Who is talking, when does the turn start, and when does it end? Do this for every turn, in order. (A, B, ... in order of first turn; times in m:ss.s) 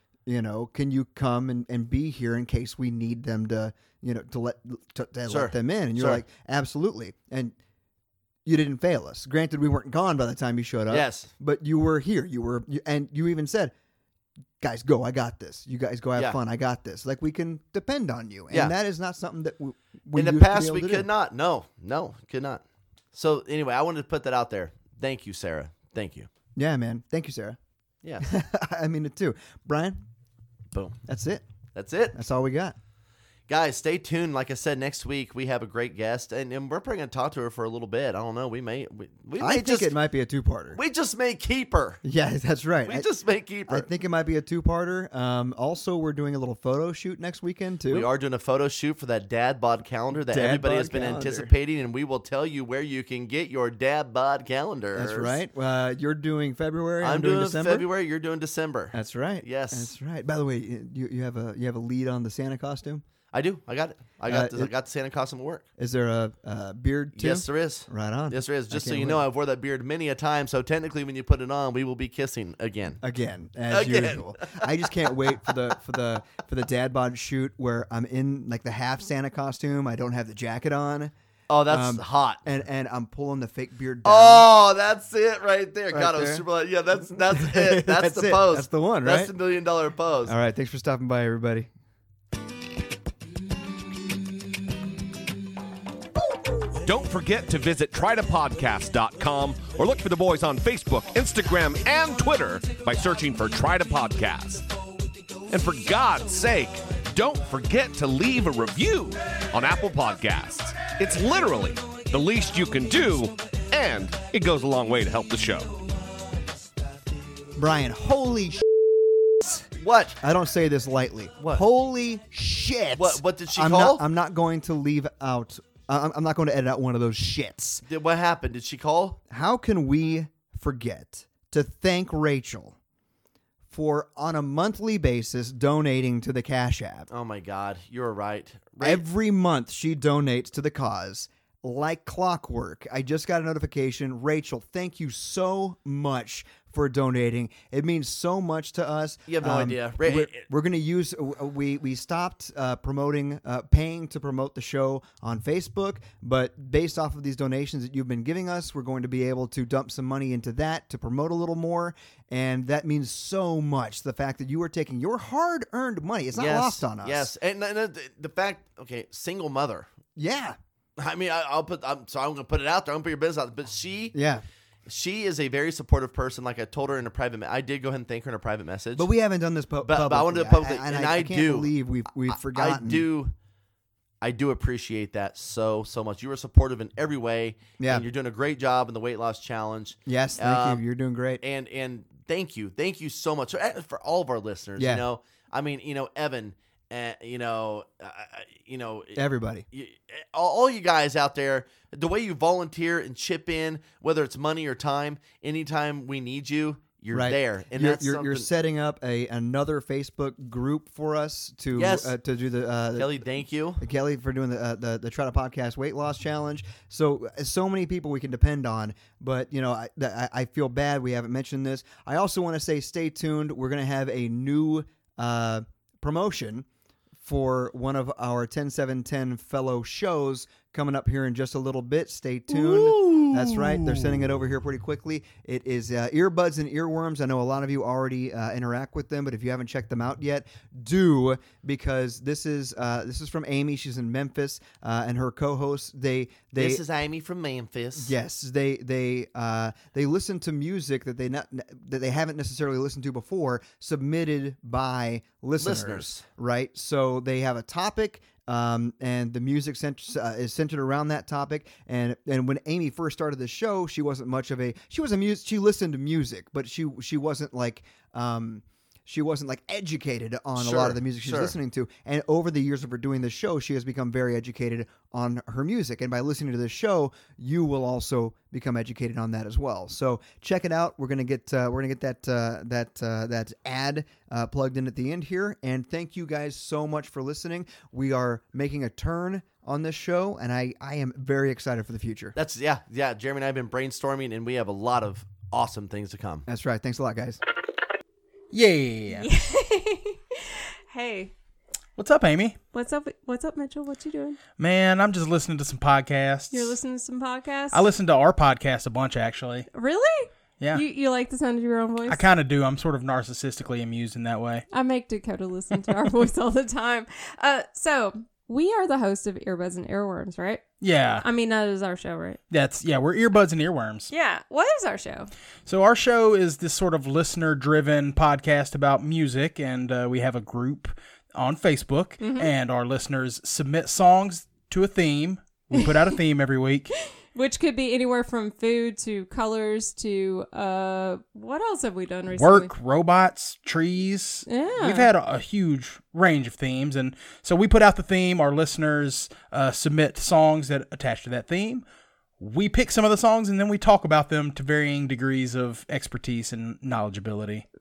0:00.2-0:07.6 A
0:05.3-0:06.2 B
0:08.4-0:13.7 A
0:10.9-0:11.3 B
0:14.6-0:21.1 A
0:18.5-0:18.7 B
0:20.1-0:22.6 B
0:23.1-0:26.3 B
0:26.6-0:27.6 A
0:28.0-0:28.3 B
0:28.2-0:30.0 A
0:31.1-0:31.4 A
0:31.7-0:32.2 B
0:32.1-0:32.7 A
0:33.5-0:39.9 B
0:39.4-0:40.8 A
0:40.7-0:42.0 B
0:42.0-0:43.1 A
0:42.8-0:43.9 B
0:43.7-0:48.1 A
0:47.9-0:55.4 B
0:50.3-0:51.5 A
0:55.0-0:57.8 A
0:57.0-0:59.9 B
0:58.9-1:03.0 A
1:03.3-1:05.6 B
1:04.3-1:04.7 A
1:05.8-1:09.2 A
1:07.2-1:13.0 B
1:13.0-1:21.1 A
1:13.7-1:15.1 B
1:21.5-1:22.4 B
1:21.7-1:24.5 A
1:24.0-1:30.3 B
1:25.9-1:26.4 A
1:27.1-1:29.3 A
1:30.2-1:31.7 A
1:36.8-1:44.6 C
1:45.5-1:55.7 C
1:57.5-1:59.6 A
1:59.8-2:00.2 B
2:00.2-2:07.8 A
2:03.0-2:04.0 B
2:07.8-2:09.2 B
2:09.3-2:12.8 A
2:13.7-2:17.1 A
2:17.1-2:19.0 B
2:18.8-2:47.3 A
2:29.3-2:30.4 B
2:46.3-2:49.9 B
2:50.2-2:50.6 A
2:51.0-2:54.2 B
2:54.1-2:54.4 A
2:54.8-2:59.1 B
2:59.0-3:03.0 A
2:59.8-3:01.7 B
3:02.3-3:03.3 B
3:04.2-3:10.8 B
3:07.8-3:08.0 A
3:10.0-3:11.4 A
3:11.4-3:28.5 B
3:14.8-3:15.0 A
3:19.1-3:19.6 A
3:27.1-3:33.1 A
3:31.7-3:32.1 B
3:32.9-3:33.8 B
3:33.8-3:46.6 A
3:47.2-4:06.8 A
3:52.5-3:54.2 B
4:06.6-4:08.1 B
4:08.0-4:52.3 A
4:15.6-4:16.2 B
4:30.6-4:31.5 B
4:52.3-4:56.4 B
4:56.5-4:57.4 A
4:58.5-4:59.3 D
4:59.1-5:01.3 E
5:02.0-5:02.6 D
5:02.7-5:04.4 E
5:04.5-5:06.7 D
5:06.5-5:07.8 E
5:07.7-5:09.6 D
5:09.7-5:12.2 E
5:10.6-5:10.8 D
5:12.1-5:14.6 D
5:14.7-5:22.4 E
5:20.8-5:21.2 D
5:22.5-5:24.1 D
5:24.1-5:25.3 E
5:25.6-5:36.9 D
5:32.2-5:32.5 E
5:35.7-5:36.2 E
5:36.9-5:42.7 E
5:42.3-5:51.8 D
5:44.5-5:45.1 E
5:52.4-5:57.6 D